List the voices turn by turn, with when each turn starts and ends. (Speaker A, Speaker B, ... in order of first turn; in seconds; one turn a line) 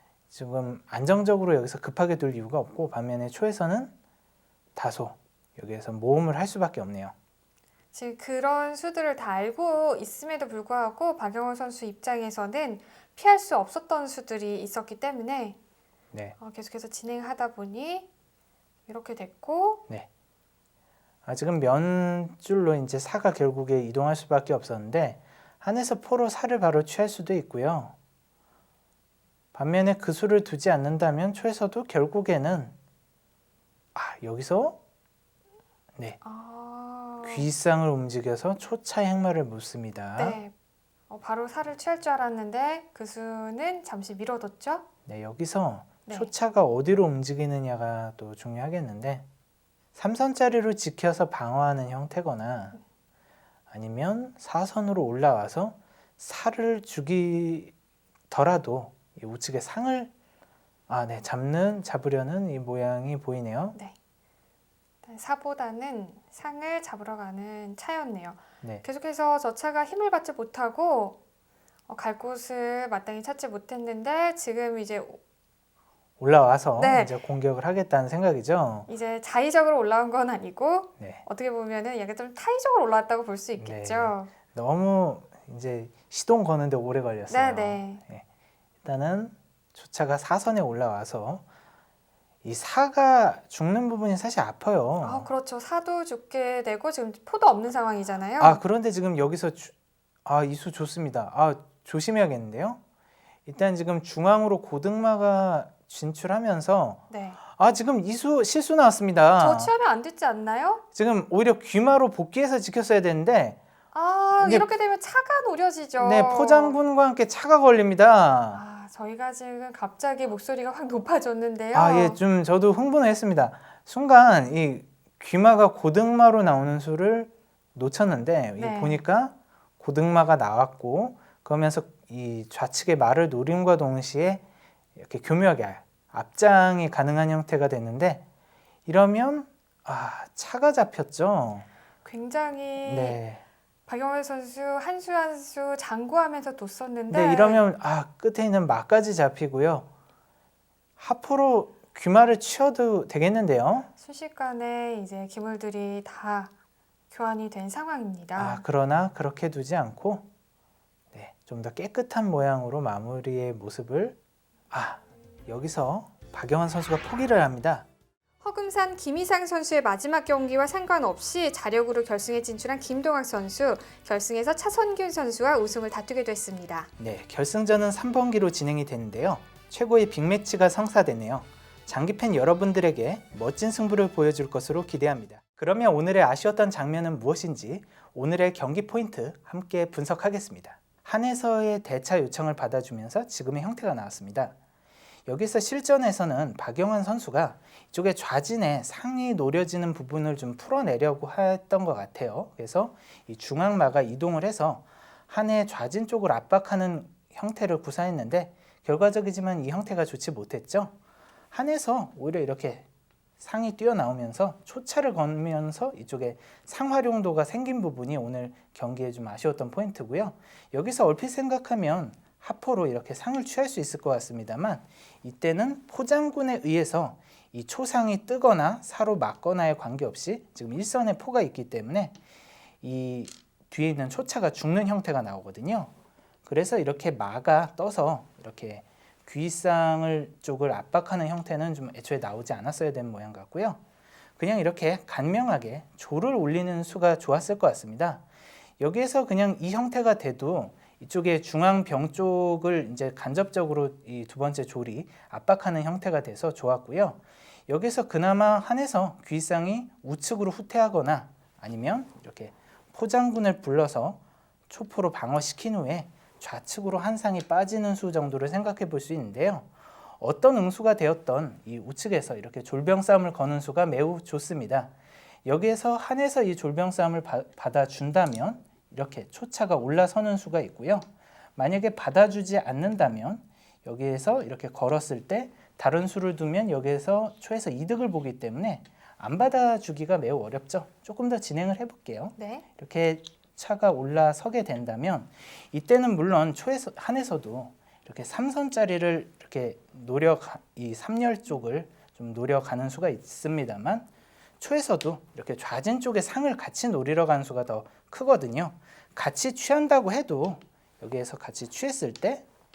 Speaker A: 0.3-3.9
Speaker A: 4.8-7.1
Speaker B: 7.9-15.6
Speaker B: 16.4-18.1
Speaker B: 18.9-19.8
Speaker A: 21.2-27.9
Speaker A: 29.5-32.7
Speaker A: 33.9-34.8
Speaker B: 36.2-37.5
Speaker A: 37.2-40.4
Speaker B: 40.2-40.5
Speaker B: 41.1-44.9
Speaker A: 45.0-49.2
Speaker B: 46.0-46.3
Speaker A: 49.9-52.8
Speaker A: 53.7-57.7
Speaker A: 58.3-60.1
Speaker A: 60.9-63.7
Speaker B: 65.0-71.2
Speaker B: 71.9-75.2
Speaker A: 76.2-78.9
Speaker B: 76.8-77.2
Speaker B: 78.9-84.3
Speaker A: 81.0-81.2
Speaker A: 83.6-88.2
Speaker B: 87.3-88.0
Speaker A: 88.8-91.4
Speaker A: 92.4-95.3
Speaker B: 95.0-98.6
Speaker A: 98.4-99.7
Speaker A: 100.2-102.8
Speaker A: 103.5-109.7
Speaker B: 107.1-107.4
Speaker B: 109.4-110.8
Speaker A: 110.9-113.6
Speaker B: 113.9-116.8
Speaker A: 114.3-114.7
Speaker A: 116.0-118.6
Speaker B: 118.5-122.2
Speaker A: 121.7-134.4
Speaker B: 128.6-129.0
Speaker A: 134.9-138.2
Speaker A: 138.8-141.7
Speaker B: 142.2-143.2
Speaker A: 142.8-143.4
Speaker B: 143.9-147.7
Speaker A: 147.1-149.9
Speaker A: 151.0-153.9
Speaker B: 154.0-156.5
Speaker B: 157.1-158.6
Speaker A: 158.3-160.3
Speaker A: 161.1-164.2
Speaker A: 164.7-167.8
Speaker B: 168.4-176.9
Speaker A: 177.0-194.5
Speaker A: 195.3-210.9
Speaker A: 211.5-212.9
Speaker A: 213.4-232.2
Speaker A: 232.8-235.9
Speaker A: 236.4-243.8
Speaker A: 244.4-248.2
Speaker A: 248.8-274.9
Speaker A: 275.4-304.1
Speaker B: 292.4-292.6
Speaker A: 304.6-312.5